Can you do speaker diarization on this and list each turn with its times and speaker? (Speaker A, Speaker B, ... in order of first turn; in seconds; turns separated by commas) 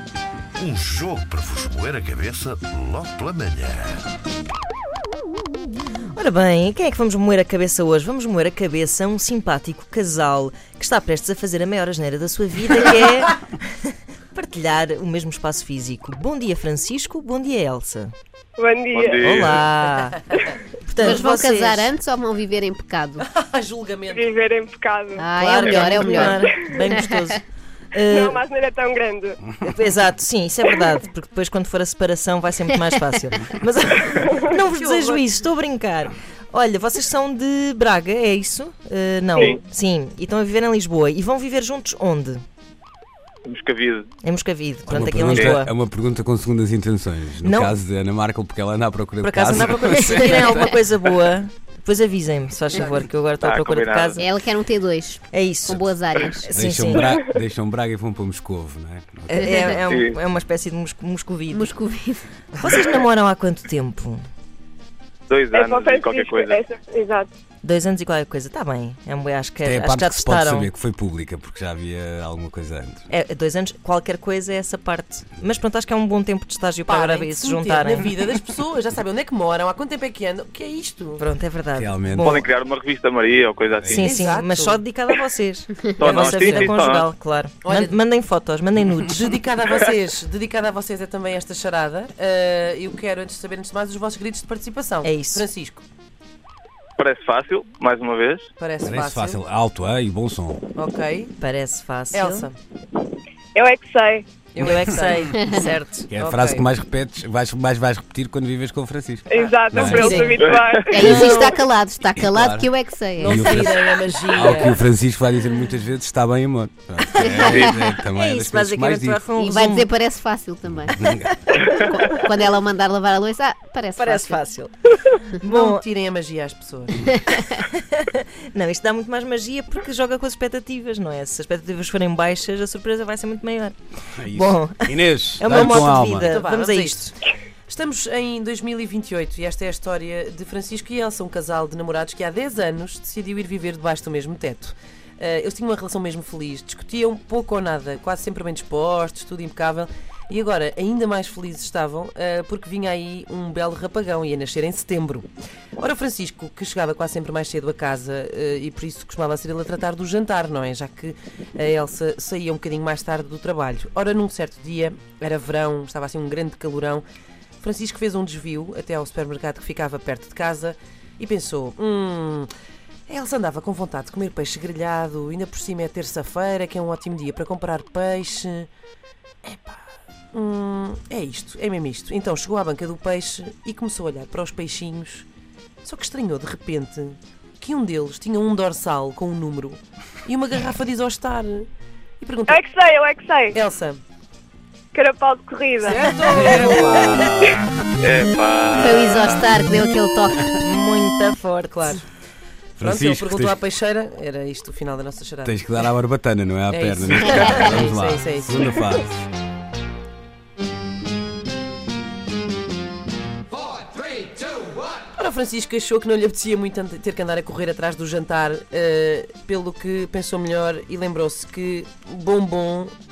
Speaker A: 0.6-4.0, Speaker B: 6.2-13.6, Speaker B: 14.3-18.1, Speaker C: 18.6-19.2, Speaker D: 18.9-19.6, Speaker B: 19.2-20.2, Speaker B: 20.9-21.9, Speaker E: 21.0-23.2, Speaker F: 23.2-24.3, Speaker C: 24.1-25.3, Speaker E: 25.2-27.4, Speaker B: 25.4-27.4, Speaker F: 25.6-26.0, Speaker C: 26.3-26.6, Speaker B: 27.9-28.4, Speaker C: 28.0-29.4, Speaker B: 29.6-42.4, Speaker F: 34.8-35.2, Speaker D: 43.5-44.1, Speaker B: 44.2-45.7, Speaker G: 44.9-50.5, Speaker D: 45.3-45.6, Speaker B: 47.4-47.8, Speaker F: 49.2-51.1, Speaker B: 49.6-54.3, Speaker D: 53.4-54.2, Speaker E: 54.2-56.6, Speaker B: 55.3-57.1, Speaker G: 56.5-59.8, Speaker B: 59.3-61.7, Speaker E: 59.4-59.7, Speaker D: 59.9-60.2, Speaker E: 61.5-62.2, Speaker B: 62.6-64.2, Speaker D: 65.3-66.6, Speaker C: 65.5-67.3, Speaker B: 67.6-70.7, Speaker G: 69.6-73.1, Speaker B: 73.1-78.1, Speaker F: 76.9-81.2, Speaker B: 81.2-82.5, Speaker G: 81.7-82.4, Speaker D: 82.2-84.2, Speaker G: 83.8-84.0, Speaker B: 83.9-89.4, Speaker F: 84.0-84.8, Speaker D: 86.0-87.1, Speaker F: 86.1-86.7, Speaker F: 87.6-88.0, Speaker F: 89.1-95.8, Speaker B: 95.0-95.5, Speaker D: 97.0-98.5, Speaker F: 98.6-99.4, Speaker G: 98.8-100.7, Speaker F: 100.8-101.3, Speaker B: 101.4-102.5, Speaker F: 102.1-102.6, Speaker C: 103.5-104.3, Speaker F: 104.5-105.3, Speaker B: 104.6-106.1, Speaker G: 106.1-110.5, Speaker F: 106.2-106.7, Speaker C: 109.3-111.5, Speaker F: 109.3-110.3, Speaker D: 110.4-110.9, Speaker E: 110.9-113.7, Speaker F: 111.0-111.5, Speaker G: 112.2-119.2, Speaker F: 113.2-114.8, Speaker E: 117.2-117.7, Speaker B: 117.2-119.9, Speaker E: 119.4-121.0, Speaker G: 120.7-121.3, Speaker E: 121.7-124.5, Speaker B: 124.0-125.8, Speaker F: 125.5-127.0, Speaker E: 127.0-127.5, Speaker B: 127.4-137.1, Speaker G: 134.2-136.3, Speaker F: 135.4-137.2, Speaker F: 137.7-167.1, Speaker F: 167.6-172.5, Speaker F: 173.1-178.7, Speaker F: 179.4-185.3, Speaker F: 185.8-191.7, Speaker F: 192.2-192.6, Speaker C: 192.5-193.6, Speaker F: 193.5-194.0, Speaker C: 194.9-197.3, Speaker F: 195.8-197.4, Speaker G: 196.9-197.6, Speaker D: 197.3-199.5, Speaker E: 198.7-200.6, Speaker B: 200.6-201.9, Speaker F: 201.7-202.1, Speaker G: 202.8-203.6, Speaker F: 202.8-205.6, Speaker G: 205.4-209.1, Speaker F: 206.7-208.8, Speaker E: 207.4-207.7, Speaker F: 215.2-222.9